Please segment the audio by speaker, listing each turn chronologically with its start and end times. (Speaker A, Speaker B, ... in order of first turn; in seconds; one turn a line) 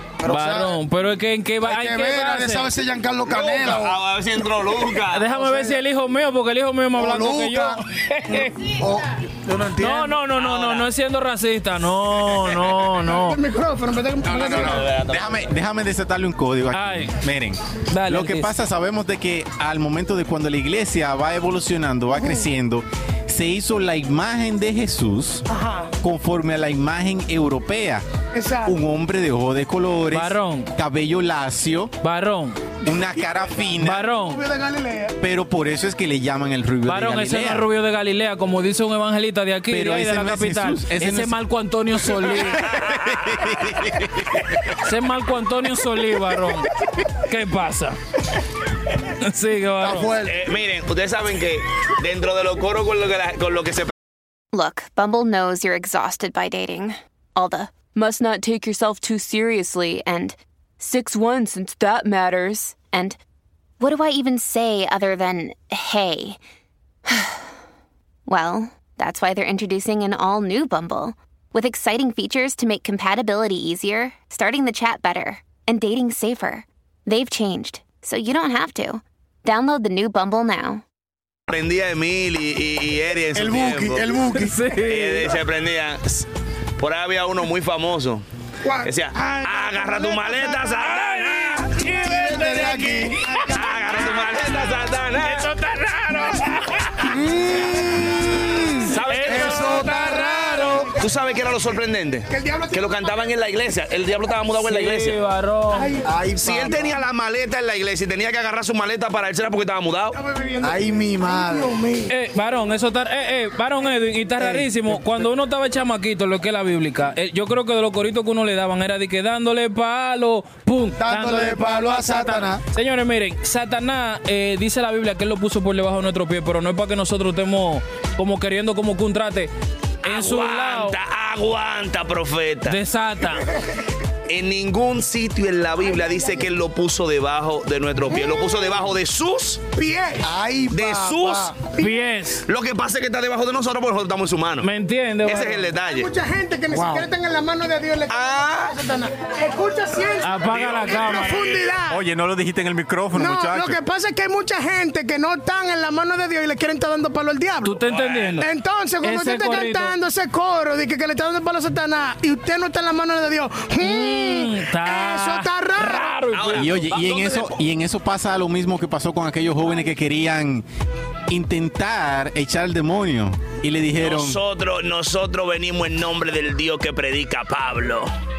Speaker A: 0.2-0.8
Speaker B: 0.3-2.7
Speaker A: 1.6-4.0
Speaker C: 3.3-5.4
Speaker B: 5.1-8.8
Speaker A: 7.0-10.1
Speaker B: 9.8-13.4
Speaker C: 10.4-10.9
Speaker C: 12.4-12.7
Speaker D: 13.1-14.9
Speaker C: 14.3-15.5
Speaker E: 15.1-25.4
Speaker B: 16.7-17.1
Speaker B: 17.9-18.5
Speaker D: 22.1-22.5
Speaker D: 25.5-25.9
Speaker E: 26.0-28.1
Speaker D: 28.3-28.8
Speaker E: 28.6-31.9
Speaker B: 30.1-30.7
Speaker B: 32.0-32.6
Speaker E: 32.8-34.1
Speaker B: 33.8-34.4
Speaker D: 34.2-35.2
Speaker E: 35.2-37.7
Speaker B: 36.9-42.7
Speaker E: 39.7-41.4
Speaker E: 42.5-44.6
Speaker C: 42.9-43.2
Speaker B: 44.8-48.0
Speaker B: 49.1-50.1
Speaker A: 49.8-50.4
Speaker C: 50.2-53.9
Speaker F: 54.5-63.2
Speaker F: 63.8-66.4
Speaker F: 67.1-67.5
Speaker F: 68.3-80.8
Speaker C: 81.5-84.1
Speaker A: 83.3-84.7
Speaker B: 84.3-85.3
Speaker C: 84.8-86.3
Speaker C: 86.8-88.2
Speaker D: 88.6-90.8
Speaker C: 88.8-91.7
Speaker B: 90.7-94.4
Speaker A: 91.8-93.3
Speaker D: 93.3-93.6
Speaker C: 93.4-95.5
Speaker B: 95.2-97.1
Speaker A: 97.0-100.9
Speaker C: 98.9-99.8
Speaker B: 99.0-100.9
Speaker C: 101.0-105.2
Speaker D: 102.3-103.1
Speaker B: 104.6-106.0
Speaker D: 105.7-106.1
Speaker A: 106.0-107.0
Speaker C: 106.4-110.2
Speaker D: 110.2-112.1
Speaker A: 110.6-111.7
Speaker B: 112.1-129.5
Speaker A: 114.4-115.0
Speaker A: 121.0-122.6
Speaker B: 130.0-131.0
Speaker C: 130.0-132.8
Speaker B: 132.7-133.5
Speaker C: 134.3-139.6
Speaker D: 135.9-136.4
Speaker D: 138.1-138.7
Speaker D: 139.8-140.3
Speaker A: 140.2-141.5
Speaker C: 140.7-141.6
Speaker B: 141.8-142.4
Speaker C: 142.4-144.7
Speaker B: 144.6-145.7
Speaker C: 145.2-146.1
Speaker D: 145.9-152.0
Speaker A: 146.7-147.1
Speaker C: 148.1-148.8
Speaker B: 150.2-151.5
Speaker C: 150.5-151.7
Speaker E: 151.9-153.8
Speaker D: 153.1-157.8
Speaker B: 157.7-158.5
Speaker C: 157.9-158.4
Speaker D: 158.4-166.2
Speaker B: 159.0-159.9
Speaker B: 163.8-166.8
Speaker C: 166.3-167.6
Speaker E: 166.6-170.7
Speaker E: 171.3-174.4
Speaker C: 174.0-178.1